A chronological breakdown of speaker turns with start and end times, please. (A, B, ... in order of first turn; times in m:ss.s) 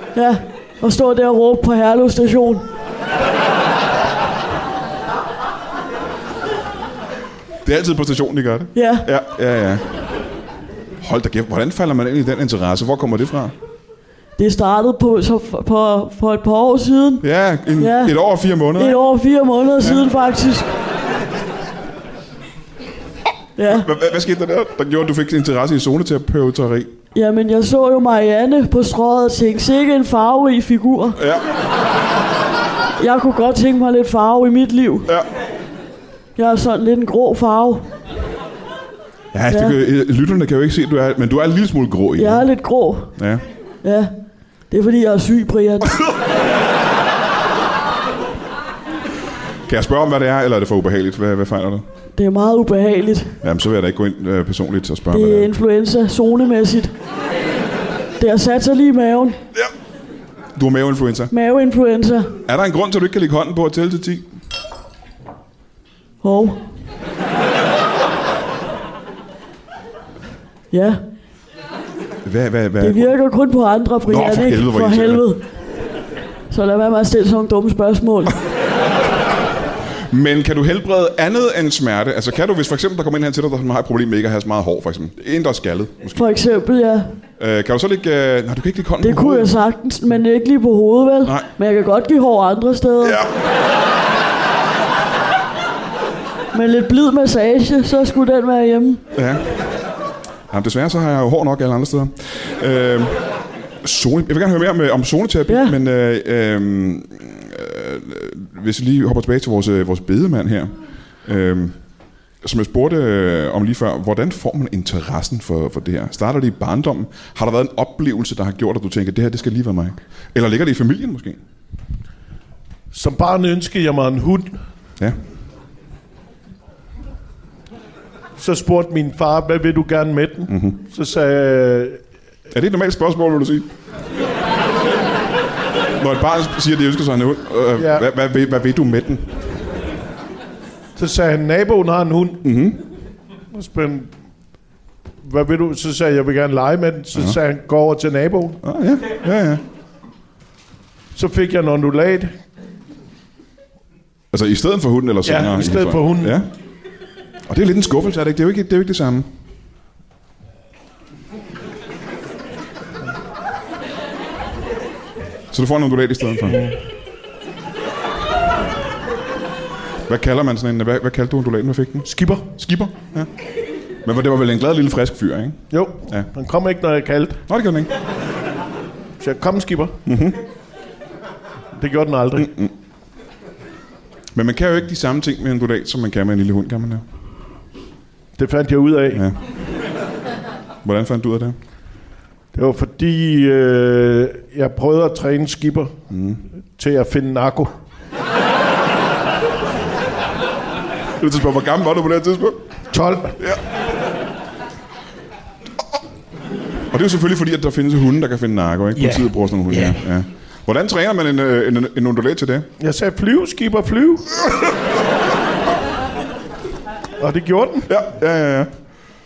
0:00.1-0:02.6 A
0:07.6-0:09.8 B
0:08.7-0:09.1 A
0:11.0-0:13.5 B
0:14.4-0:17.2 A
0:17.2-0:19.0 B
0:17.8-0:18.2 A
0:18.8-0:20.7 A
0:23.6-0:23.9 A
0:23.6-0:26.9 B
0:27.1-0:31.2 A
0:31.2-0:31.4 B
0:33.0-0:35.1 A
0:36.4-0:37.9 A
0:39.3-0:42.5 B
0:39.5-0:39.8 A
0:42.2-0:43.1 A
0:43.2-0:43.4 B
0:43.8-0:44.1 A
0:44.7-0:46.0 A
0:49.6-0:51.8 B
0:52.1-0:53.4 A
0:53.4-0:55.5 B
0:55.1-0:56.9 A
0:58.2-0:59.4 A
1:00.6-1:01.3 B
1:01.3-1:02.3 A
1:02.4-1:04.3 B
1:06.2-1:06.6 A
1:10.7-1:11.0 A
1:12.2-1:13.1 B
1:12.8-1:15.4 A
1:14.0-1:15.2 B
1:16.5-1:18.4 A
1:20.1-1:26.2 B
1:26.1-1:27.1 A
1:27.4-1:29.5 B
1:29.0-1:33.2 A
1:33.0-1:33.3 B
1:36.5-1:39.0 A
1:39.1-1:39.5 B
1:40.5-1:43.3 B
1:43.8-1:51.8 B
1:45.5-1:45.7 A
1:52.4-2:01.4 B
2:02.9-2:04.6 C
2:08.4-2:12.0 C
2:10.5-2:10.8 B
2:12.5-2:13.7 B
2:16.0-2:19.4 B
2:17.8-2:18.1 C
2:21.0-2:22.4 C
2:22.4-2:22.8 B
2:23.5-2:24.1 C
2:25.2-2:28.6 C
2:27.1-2:27.4 B
2:28.6-2:29.6 B
2:31.1-2:32.3 C
2:34.3-2:36.5 B
2:35.2-2:36.4 C
2:37.5-2:39.3 B
2:45.5-2:46.6 B
2:46.4-2:46.8 C
2:50.1-2:53.3 B
2:52.0-2:52.4 C
2:54.0-2:56.3 B
2:55.7-2:57.4 C
2:57.5-2:57.9 B
2:59.2-3:00.0 C
3:00.0-3:00.4 B
3:01.8-3:02.5 C
3:02.4-3:02.7 B
3:04.3-3:07.0 B
3:08.4-3:09.2 C
3:10.8-3:11.6 B
3:12.5-3:16.0 C
3:16.1-3:16.4 B
3:16.8-3:17.7 C
3:21.2-3:22.6 B
3:22.9-3:23.4 C
3:26.9-3:32.7 B
3:28.9-3:30.0 C
3:32.8-3:34.4 C
3:37.2-3:37.9 C
3:37.9-3:38.7 B